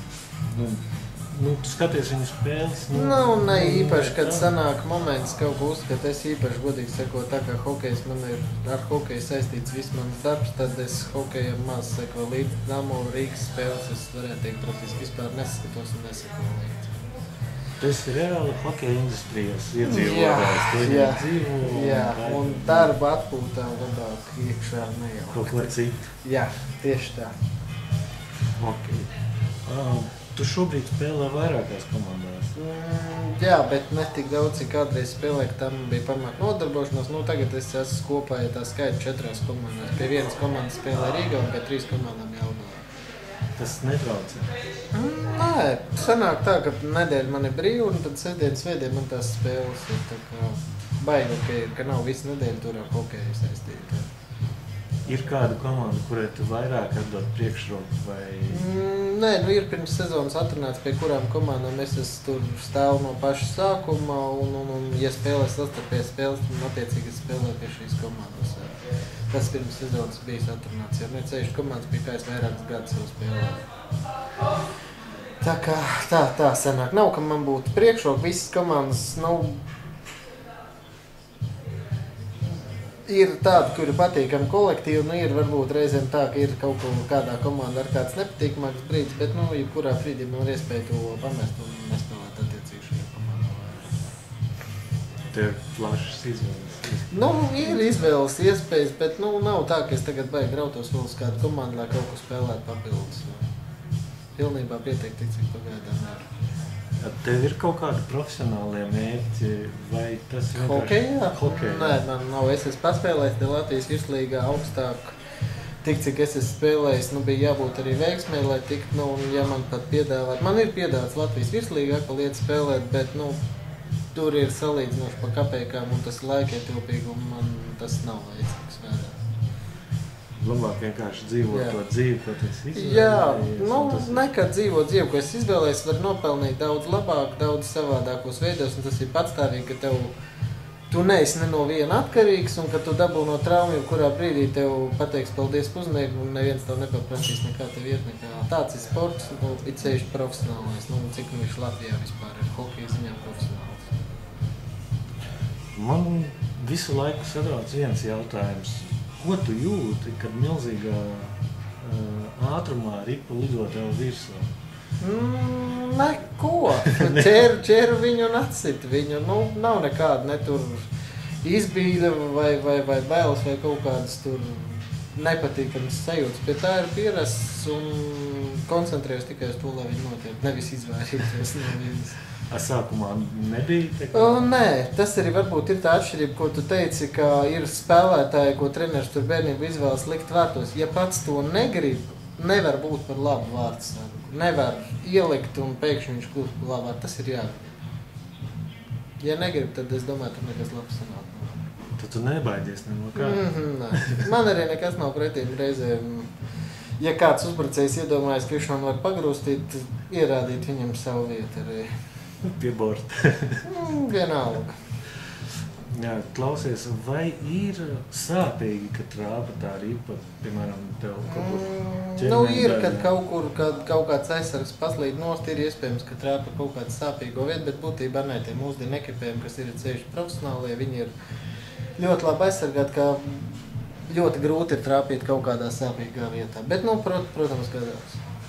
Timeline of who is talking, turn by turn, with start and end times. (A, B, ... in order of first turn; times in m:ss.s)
0:00.5-0:04.5 A
0:02.9-0:17.0 B
0:17.8-0:22.9 A
0:19.8-0:27.3 B
0:25.3-0:26.0 A
0:28.6-0:29.1 A
0:29.6-0:32.5 A
0:32.5-0:42.8 B
0:43.6-0:44.5 A
0:44.9-0:54.1 B
0:55.0-0:58.7 A
0:58.5-1:08.8 B
1:09.3-1:13.6 B
1:15.4-1:19.6 B
1:23.0-1:33.9 B
1:35.3-1:37.9 A
1:37.1-1:43.4 B
1:44.4-1:46.2 B
1:47.0-1:52.0 A
1:50.5-1:55.2 B
1:55.8-2:03.4 B
2:04.1-2:09.1 B
2:10.4-2:14.3 A
2:11.5-2:11.8 B
2:12.7-2:20.1 B
2:20.9-2:33.9 B
2:35.7-2:44.5 A
2:45.0-2:50.9 B
2:46.8-2:47.3 A
2:51.4-3:02.2 B
3:02.5-3:04.5 A
3:04.1-3:17.6 B
3:19.2-3:21.6 B
3:22.0-3:24.2 A
3:23.1-3:26.3 B
3:27.0-3:31.9 B
3:32.4-3:33.6 A
3:33.6-3:34.8 B
3:35.9-3:43.1 A
3:41.2-3:51.1 B
3:52.0-3:58.2 B